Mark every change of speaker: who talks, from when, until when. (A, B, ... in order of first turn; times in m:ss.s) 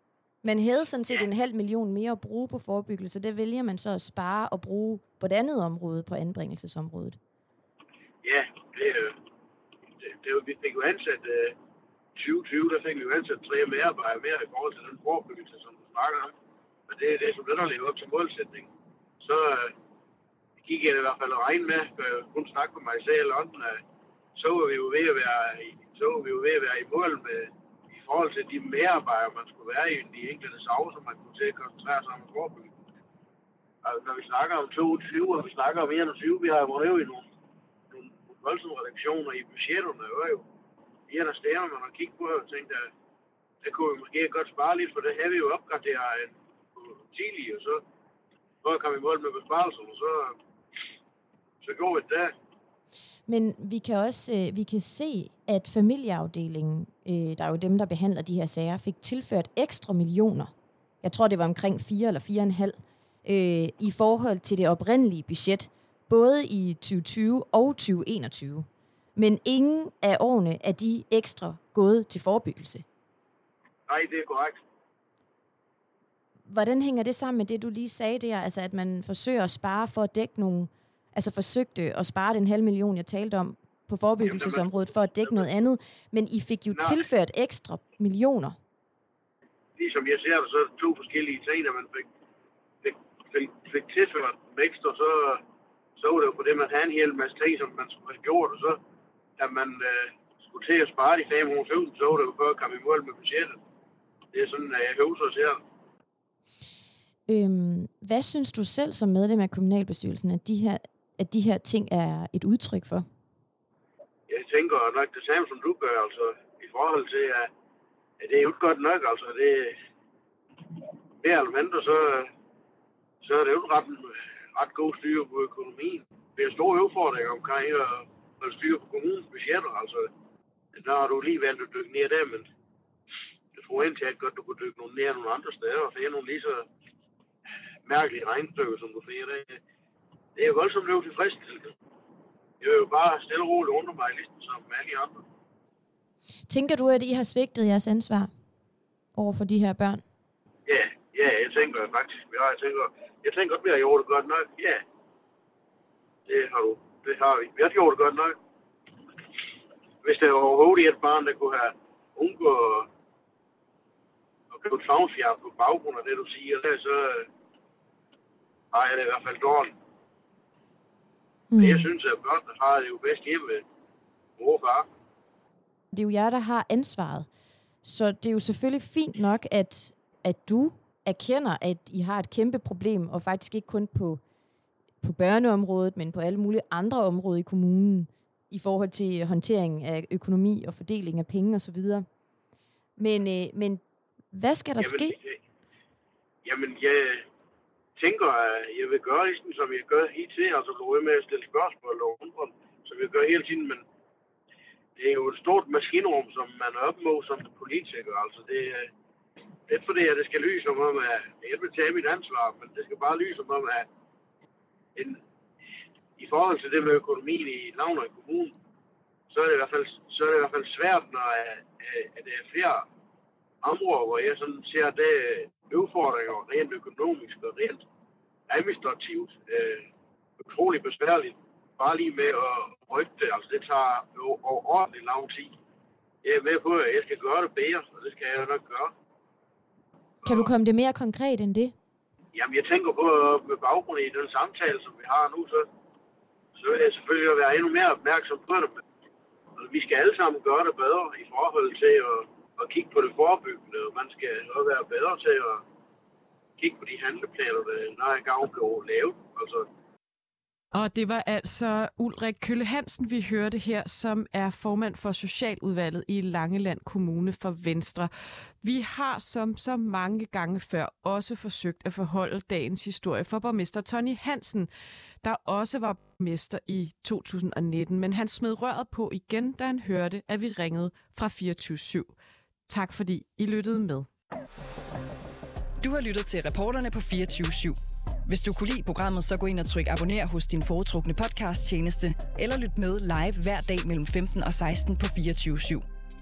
0:00.4-0:07.2 A
0:08.2-0:09.2 B
0:10.0-0:11.6 B
0:12.2-0:16.3 B
0:16.9-0:18.7 B
0:19.2-0:19.7 B
0:20.6-0:23.8 B
0:24.4-0:32.7 B
0:33.8-0:37.3 B
0:37.9-0:40.4 B
0:41.1-0:42.9 B
0:43.6-0:47.8 B
0:48.6-0:50.4 B
0:51.6-0:52.3 B
0:53.3-1:00.5 A
1:01.0-1:12.8 A
1:13.9-1:14.6 B
1:16.5-1:28.6 A
1:24.2-1:24.7 B
1:26.7-1:27.0 B
1:29.8-1:32.1 B
1:32.8-1:35.4 B
1:36.0-1:38.8 B
1:39.4-1:43.6 B
1:44.3-1:45.6 B
1:47.3-1:53.1 A
1:54.3-1:57.5 B
1:58.2-1:59.8 B
2:01.2-2:02.3 B
2:03.2-2:10.1 B
2:10.7-2:12.5 B
2:13.6-2:16.7 B
2:17.9-2:19.6 B
2:20.4-2:21.7 B
2:22.6-2:25.2 B
2:26.5-2:28.3 A
2:29.2-2:30.0 A
2:30.7-2:34.8 B
2:36.3-2:38.4 B
2:40.0-2:42.9 B
2:44.5-2:47.3 B
2:48.7-2:49.7 B
2:51.5-2:51.9 A
2:51.6-2:53.6 B
2:54.4-2:54.9 B
2:55.9-2:57.3 A
2:57.8-3:04.2 A
3:05.0-3:12.1 A
3:13.0-3:15.2 A
3:14.8-3:15.4 B
3:16.4-3:17.2 B
3:18.0-3:23.8 B
3:25.0-3:28.9 B
3:29.7-3:33.9 B
3:36.2-3:38.6 B
3:39.3-3:42.9 B
3:43.6-3:47.8 B
3:48.5-3:49.8 B
3:50.5-3:55.5 B
3:56.2-3:58.9 B
4:00.2-4:01.8 A
4:02.3-4:05.7 B
4:06.6-4:08.8 B
4:09.6-4:15.6 B
4:16.6-4:19.7 B
4:20.7-4:28.1 C
4:28.6-4:34.7 C
4:35.2-4:42.1 C
4:42.7-4:44.1 C
4:45.8-4:55.9 D